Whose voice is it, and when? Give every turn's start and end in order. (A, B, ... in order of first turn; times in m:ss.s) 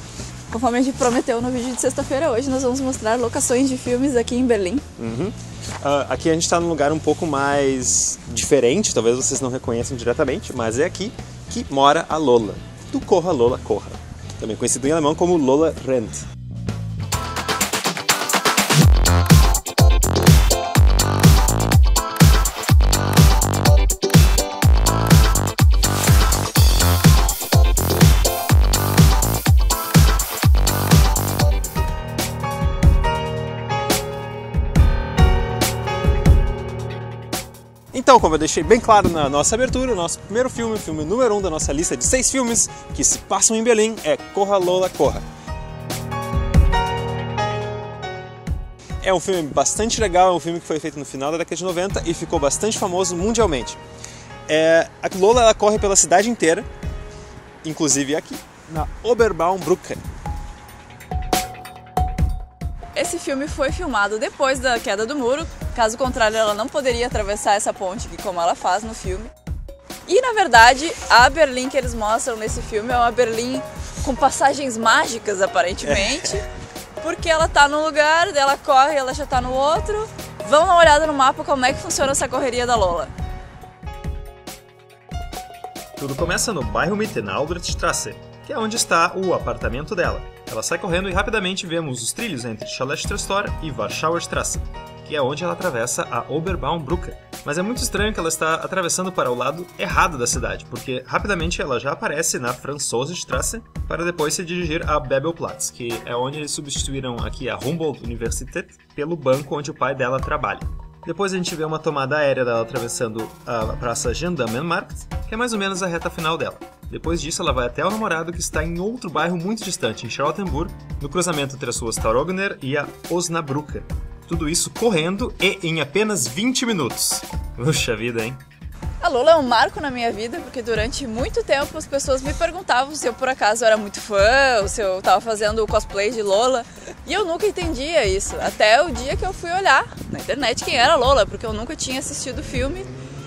0:00.5-0:04.8 A
0:05.0-0:16.2 B
0:37.9-0:45.2 B
0:49.0-0:53.8 B
0:54.5-0:56.7 B
0:57.6-1:00.0 B
1:02.9-1:09.3 A
1:10.0-1:16.4 A
1:15.8-1:16.4 B
1:17.0-1:23.1 A
1:26.0-2:08.4 B
2:09.0-2:22.9 A